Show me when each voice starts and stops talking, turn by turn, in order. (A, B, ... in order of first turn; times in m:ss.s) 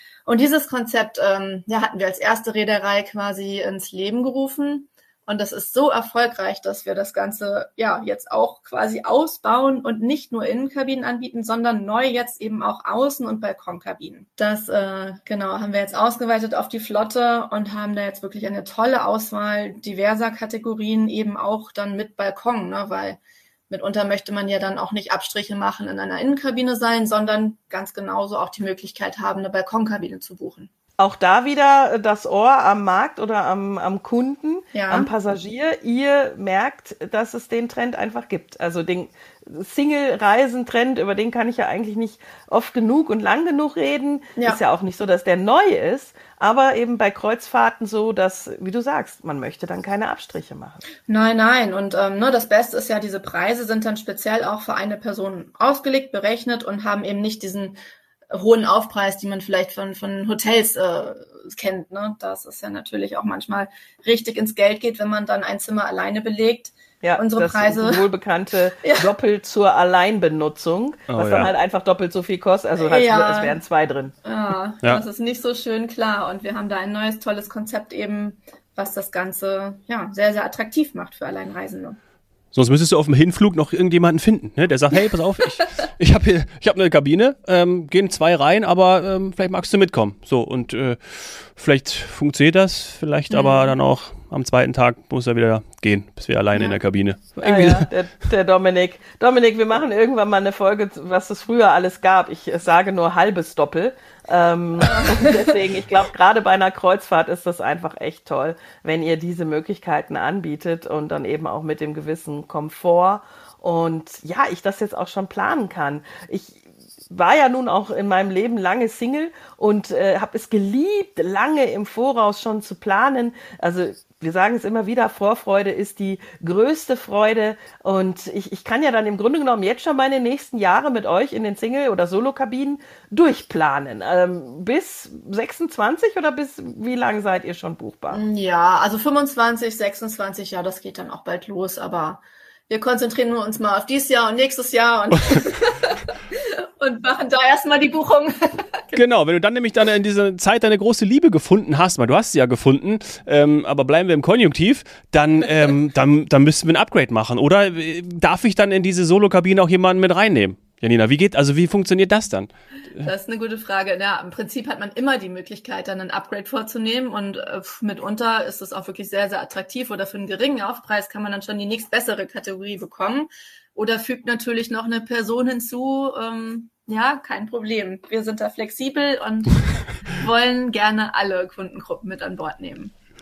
0:00.2-0:23.2 A
0:23.7-0:30.7 A
0:31.0-0:50.8 B
0:34.7-0:35.1 A
0:44.4-0:44.6 A
0:51.1-0:57.8 A
0:58.3-1:08.1 A
1:07.0-1:14.1 B
1:08.8-1:09.1 A
1:11.1-1:11.5 C
1:12.8-1:13.6 A
1:14.2-1:22.0 A
1:22.5-1:37.9 C
1:33.3-1:33.8 A
1:36.5-1:36.8 A
1:37.4-2:18.2 B
1:44.9-1:45.3 A
2:18.1-2:29.0 A
2:28.9-2:43.1 C
2:43.0-3:02.9 A